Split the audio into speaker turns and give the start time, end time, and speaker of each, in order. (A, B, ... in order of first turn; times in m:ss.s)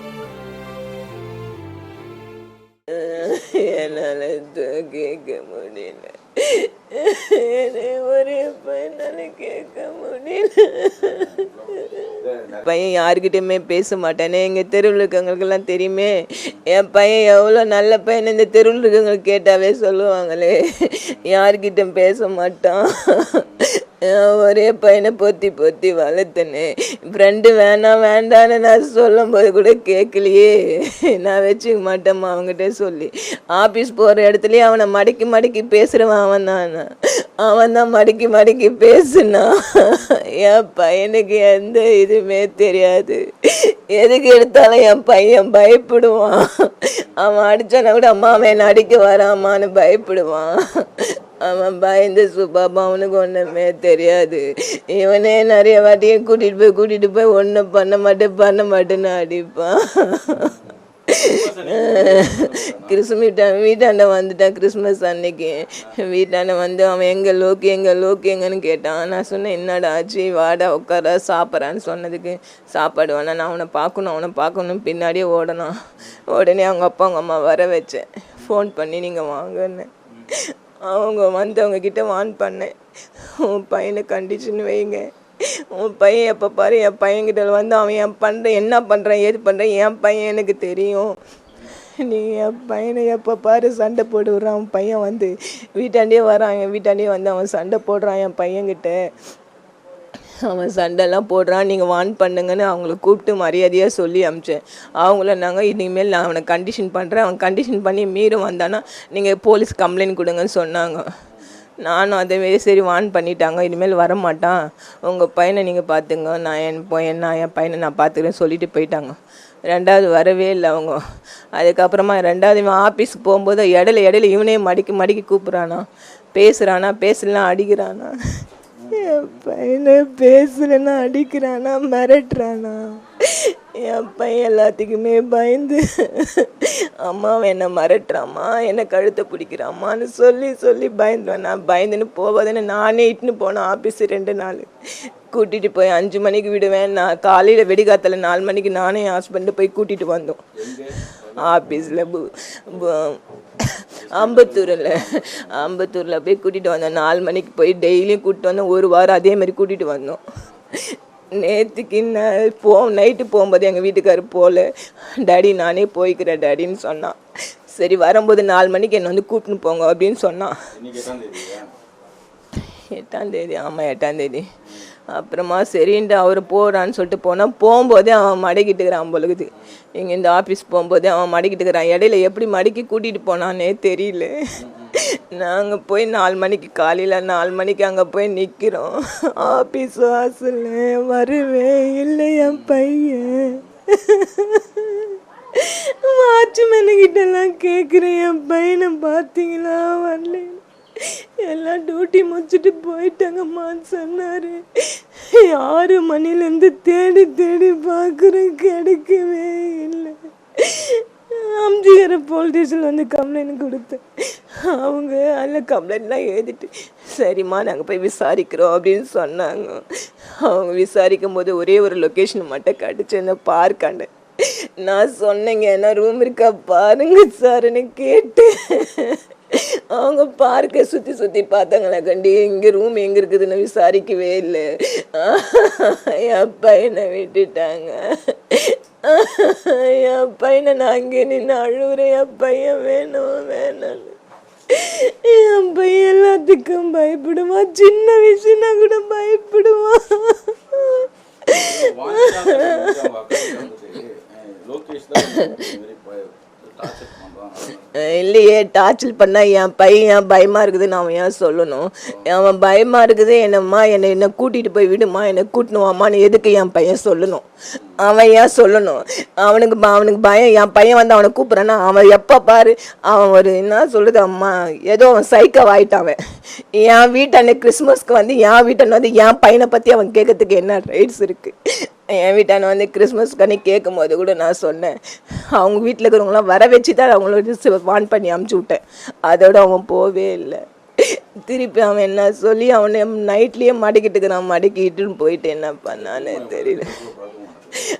0:02.9-0:36.9 A
0:03.1-0:04.1 B
0:11.0-0:12.7 B
0:23.3-0:23.7 B
0:37.4-1:00.6 A
1:00.3-1:03.0 B
1:01.1-1:31.2 A
1:31.7-1:39.0 A
1:40.4-1:51.0 A
1:51.3-1:51.6 B
1:51.8-1:59.2 A
1:59.7-2:01.0 A
2:01.5-2:08.1 A
2:08.8-2:09.4 B
2:08.9-2:24.7 A
2:25.3-2:40.2 A
2:30.6-2:32.1 B
2:34.0-2:35.7 B
2:40.8-2:44.7 A
2:45.2-2:47.2 A
2:47.7-2:50.6 A
2:50.7-2:51.7 B
2:52.6-2:54.5 A
2:55.1-3:04.3 A
3:04.6-3:05.0 B
3:05.0-4:04.2 A
3:12.4-3:12.8 B
4:04.7-4:13.7 A
4:11.4-4:18.3 B
4:15.2-4:15.7 A
4:17.9-4:27.4 A
4:28.0-4:36.2 A
4:36.7-4:41.6 A
4:42.1-4:45.0 A
4:45.5-4:57.0 A
4:55.9-4:57.8 B